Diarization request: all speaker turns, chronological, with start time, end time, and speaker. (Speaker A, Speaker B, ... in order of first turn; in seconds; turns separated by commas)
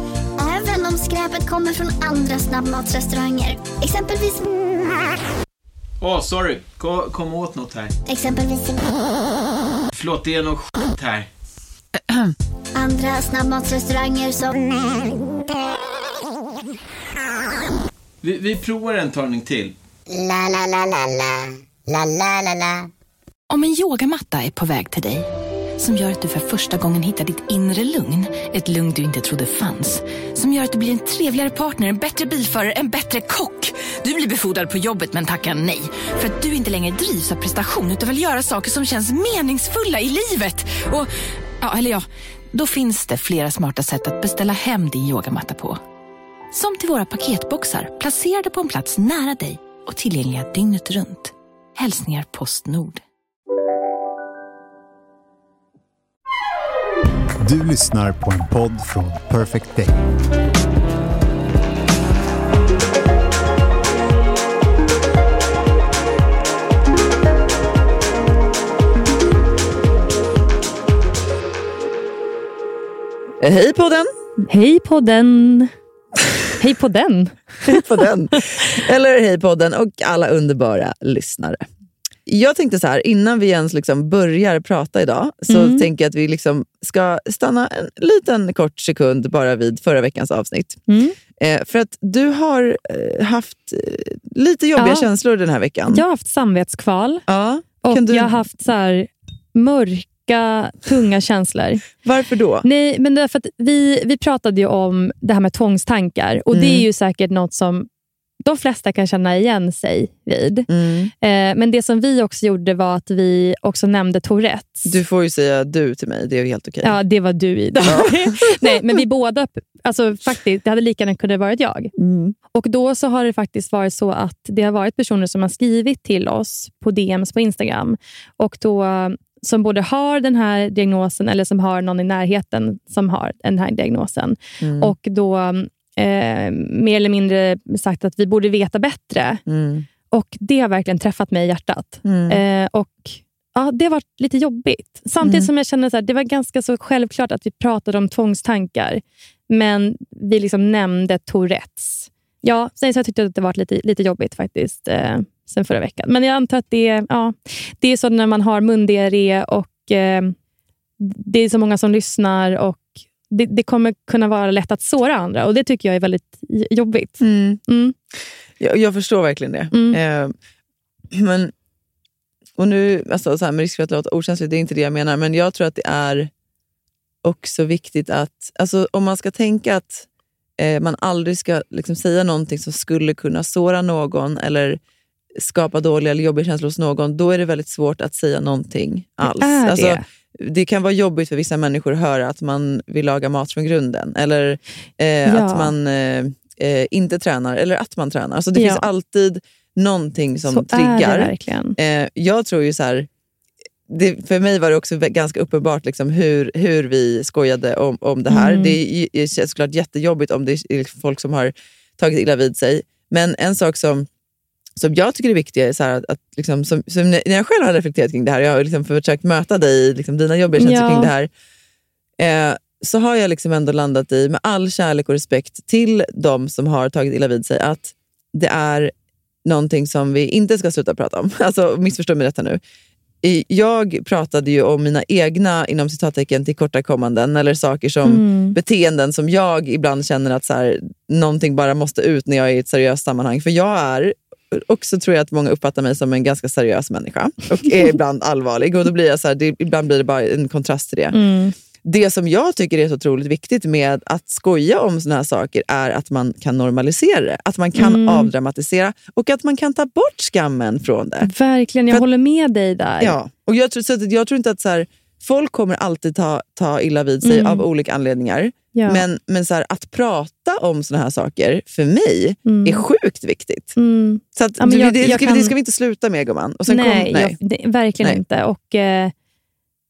Speaker A: 0.4-4.5, Speaker B: 6.0-7.9, Speaker A: 8.1-9.0, Speaker B: 9.9-11.3, Speaker A: 12.7-15.2, Speaker B: 18.2-19.7, Speaker C: 20.1-22.9, Speaker D: 23.5-25.3, Speaker D: 25.8-45.8, Speaker D: 46.5-53.0, Speaker E: 57.4-60.0, Speaker F: 73.4-74.1, Speaker G: 74.5-75.7, Speaker G: 76.6-77.8, Speaker F: 77.7-81.6, Speaker F: 82.2-90.8, Speaker G: 85.5-85.9, Speaker G: 90.9-91.2, Speaker F: 91.4-96.0, Speaker G: 94.8-95.1, Speaker G: 95.9-97.2, Speaker F: 97.3-98.4, Speaker G: 97.8-101.8, Speaker F: 102.0-102.6, Speaker G: 102.6-107.9, Speaker F: 106.5-106.8, Speaker G: 108.4-110.7, Speaker F: 110.7-111.1, Speaker G: 111.2-115.0, Speaker F: 114.9-117.0, Speaker G: 116.8-121.9, Speaker F: 117.8-118.7, Speaker F: 122.0-122.3, Speaker G: 122.5-139.4, Speaker F: 134.6-134.9, Speaker F: 139.5-139.8, Speaker G: 140.1-160.3, Speaker F: 142.0-142.4, Speaker F: 145.2-145.5, Speaker G: 161.0-167.9, Speaker F: 167.2-167.6, Speaker F: 168.6-170.3, Speaker G: 169.7-170.0, Speaker F: 171.1-171.5, Speaker F: 172.6-176.3, Speaker F: 177.2-180.1, Speaker F: 180.6-184.8, Speaker F: 185.4-203.1, Speaker G: 189.2-190.0, Speaker G: 195.3-195.7, Speaker G: 198.5-198.8, Speaker G: 200.4-201.8, Speaker F: 203.9-214.1, Speaker G: 208.3-208.8, Speaker F: 214.8-221.3, Speaker G: 220.6-221.1, Speaker F: 222.2-228.9, Speaker F: 229.4-232.6, Speaker F: 233.2-251.2, Speaker G: 238.0-238.6, Speaker G: 251.1-251.5, Speaker F: 251.8-261.3, Speaker G: 257.8-258.3, Speaker G: 261.2-263.1, Speaker F: 263.0-273.7, Speaker G: 267.2-267.6, Speaker G: 268.7-269.0, Speaker G: 272.4-272.8, Speaker G: 273.8-275.5, Speaker F: 274.4-277.4, Speaker G: 276.7-279.1